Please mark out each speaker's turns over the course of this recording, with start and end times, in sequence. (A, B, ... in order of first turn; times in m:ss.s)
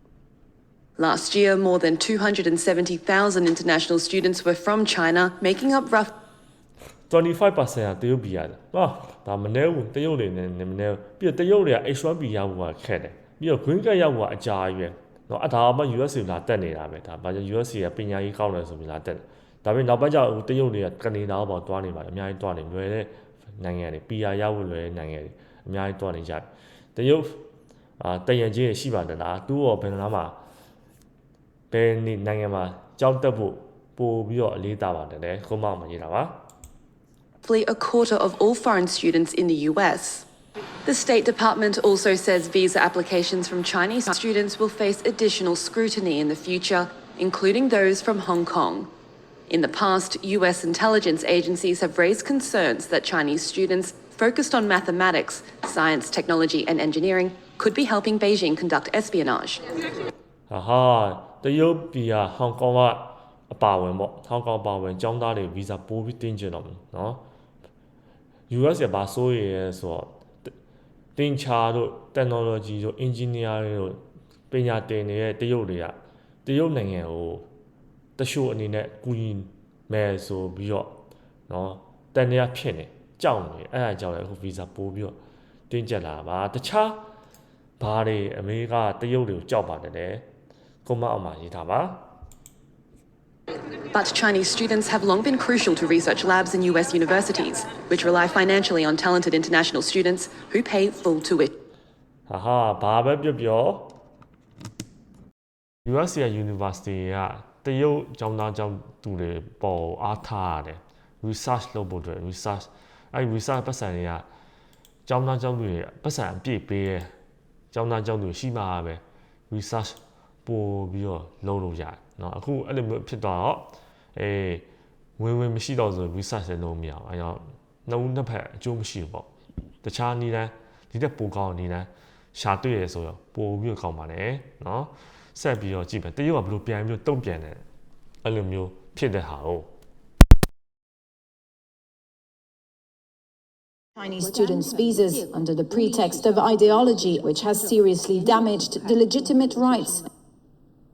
0:01.0-0:06.1 A
0:07.1-0:27.4 B
0:28.0-0:30.4 B
0:31.7-0:36.4 B
0:37.4-0:40.2 A
0:40.8-0:48.9 A
0:49.5-0:59.6 A
1:00.5-1:07.2 B
1:08.5-1:10.2 B
1:11.2-1:14.0 B
1:14.5-1:17.5 B
1:18.2-1:25.2 B
1:25.7-1:27.0 B
1:27.8-1:30.3 B
1:30.8-1:32.0 B
1:33.9-1:41.5 A
1:42.3-1:43.9 B
1:45.8-1:54.2 B
1:55.1-1:57.1 B
1:57.7-2:04.6 B
2:05.2-2:09.3 B
2:09.8-2:17.6 B
2:18.2-2:19.7 B
2:24.0-2:30.1 C